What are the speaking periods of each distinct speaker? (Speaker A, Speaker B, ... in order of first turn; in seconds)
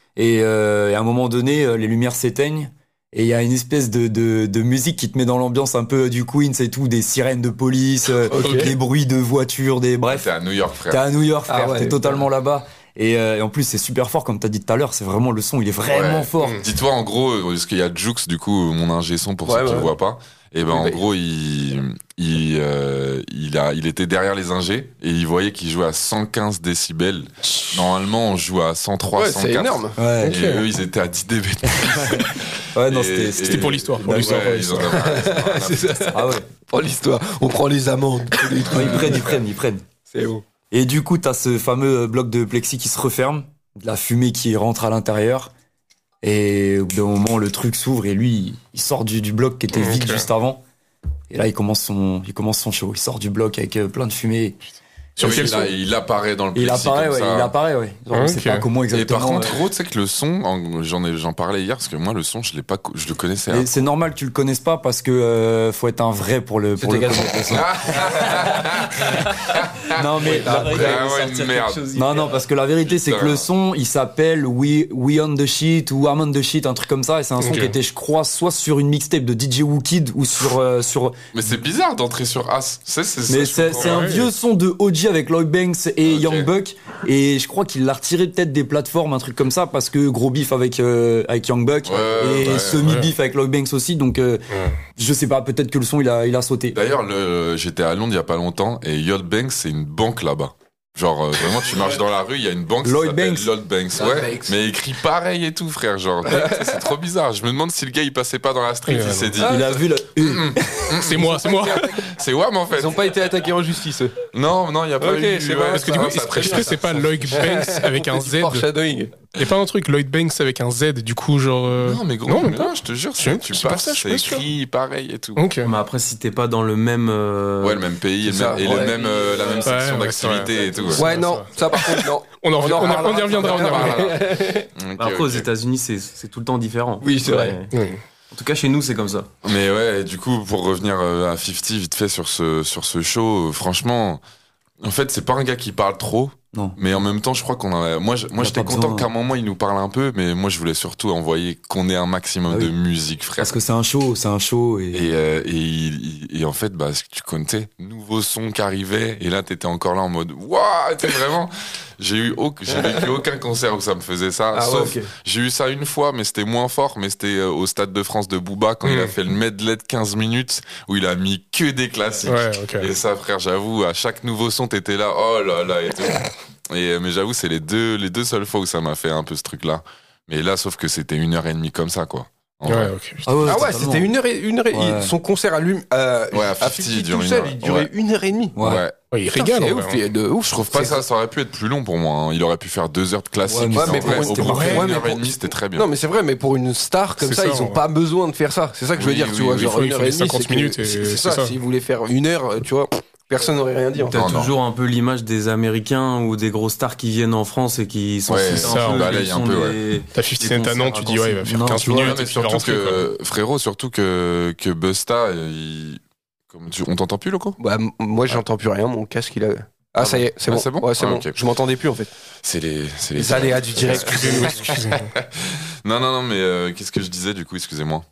Speaker A: 0.2-10.3, 10.9-16.6, 30.0-30.4, 31.7-34.9, 36.1-36.5, 38.7-39.8, 40.7-45.5, 46.2-50.6, 51.3-54.6, 55.2-55.7, 56.5-59.6, 63.5-68.6, 69.9-81.2, 83.3-96.8, 102.8-103.5, 109.4-111.0, 146.5-146.8, 148.4-149.1, 153.4-155.1, 183.3-184.1, 184.7-185.1, 188.6-188.8, 193.5-194.9, 211.4-212.2
Speaker B: 8.3-8.7, 11.5-12.2, 19.5-19.9, 20.7-21.0, 29.1-30.0, 34.9-39.4, 40.1-40.4, 66.8-67.6, 70.2-71.0, 104.0-104.5, 106.3-106.8, 109.4-109.7, 112.8-114.2, 115.0-119.1, 128.2-129.7, 130.9-134.7, 137.0-137.6, 162.8-163.0, 164.5-165.1, 183.5-188.6, 189.3-191.0, 193.5-204.3, 217.6-222.1, 223.2-224.6
Speaker C: 10.1-11.0, 15.8-36.2, 38.6-39.2, 55.2-57.5, 58.9-63.7, 67.5-70.0, 70.6-71.9, 72.8-73.5, 81.3-84.1, 86.1-86.5, 91.9-92.9, 96.7-113.1, 114.3-117.0, 121.8-125.5, 127.6-131.1, 132.7-135.5, 139.4-144.2, 144.8-153.6, 154.9-182.9, 186.3-187.9, 188.6-189.0, 190.4-195.9, 199.0-199.8, 204.1-204.6, 208.3-209.8, 211.9-217.6, 220.0-221.4, 222.4-228.1
Speaker D: 30.2-30.6, 33.4-34.7, 49.8-50.3, 55.2-55.7, 58.1-58.7, 77.4-77.8, 83.8-84.3, 92.8-93.1, 108.9-109.3, 111.0-112.0, 115.7-118.7, 119.4-124.5, 125.4-125.7, 129.6-134.1, 137.7-138.0, 168.8-169.1, 172.3-172.9, 182.7-183.2, 189.1-190.0, 194.5-194.9, 197.2-197.8, 199.6-201.5, 208.6-209.2, 210.2-213.1, 223.9-225.1
Speaker E: 70.4-72.2, 125.6-127.8, 128.5-128.9, 135.0-137.7, 138.3-139.3, 204.1-211.5